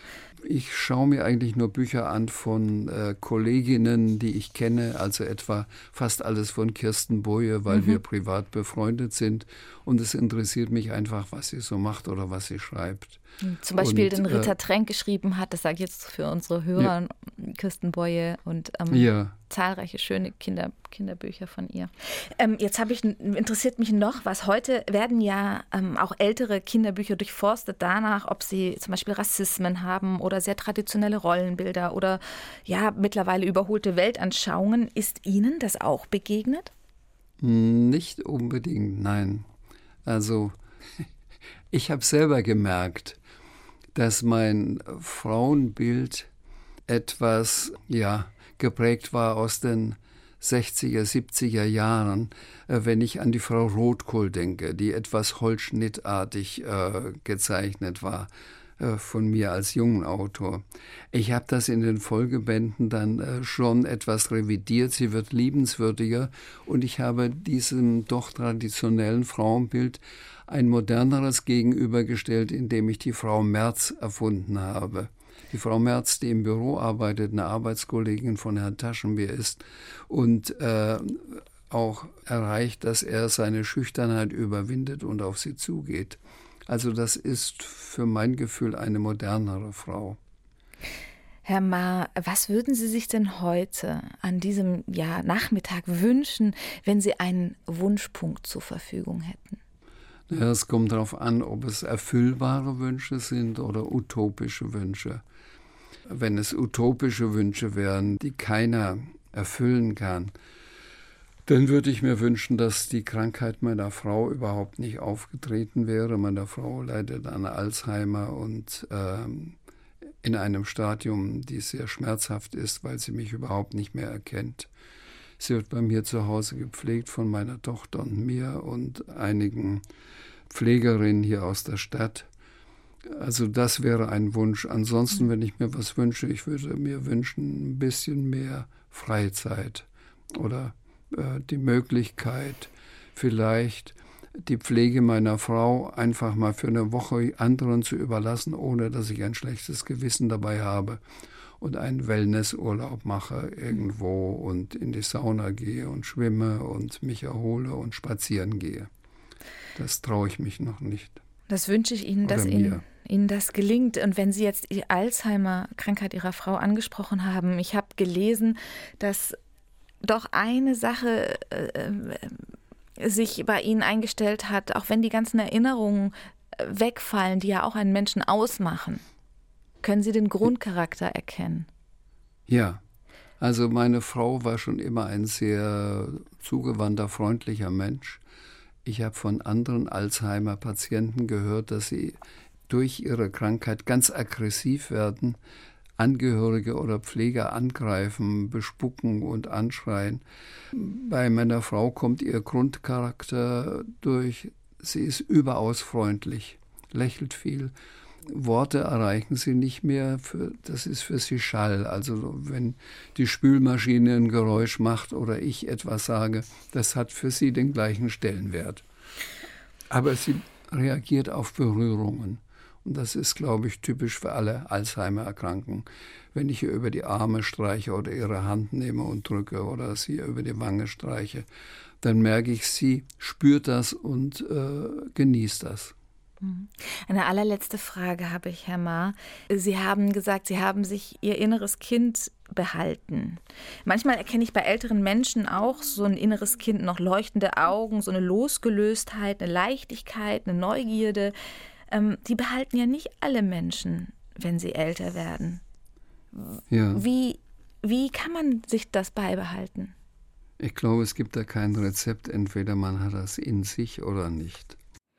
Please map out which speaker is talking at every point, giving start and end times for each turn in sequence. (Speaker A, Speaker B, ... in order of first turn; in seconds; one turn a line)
Speaker A: 0.4-13.2
Speaker B: 7.7-8.0
Speaker B: 13.4-36.7
Speaker A: 13.8-14.5
Speaker A: 18.9-19.4
Speaker A: 37.4-39.5
Speaker A: 40.0-41.1
Speaker A: 41.7-43.2
Speaker A: 43.9-46.3
Speaker A: 46.9-90.2
Speaker B: 91.4-99.6
Speaker A: 100.3-105.2
Speaker A: 106.1-110.3
Speaker A: 111.5-119.6
Speaker A: 120.2-124.7
Speaker A: 125.4-129.8
Speaker A: 130.5-132.3
Speaker A: 133.1-151.0
Speaker A: 151.6-158.9
Speaker A: 159.8-161.2
Speaker B: 161.5-169.4
Speaker A: 162.2-162.8
Speaker B: 170.0-179.0
Speaker B: 179.8-181.7
Speaker A: 182.5-182.8
Speaker A: 183.4-188.2
Speaker A: 188.8-192.2
Speaker A: 192.7-195.4
Speaker A: 196.0-207.7
Speaker A: 208.3-218.8
Speaker A: 219.9-231.4
Speaker A: 232.0-235.9
Speaker B: 236.4-251.3
Speaker B: 251.9-255.6
Speaker B: 256.3-259.9
Speaker A: 256.7-257.0
Speaker A: 260.6-264.8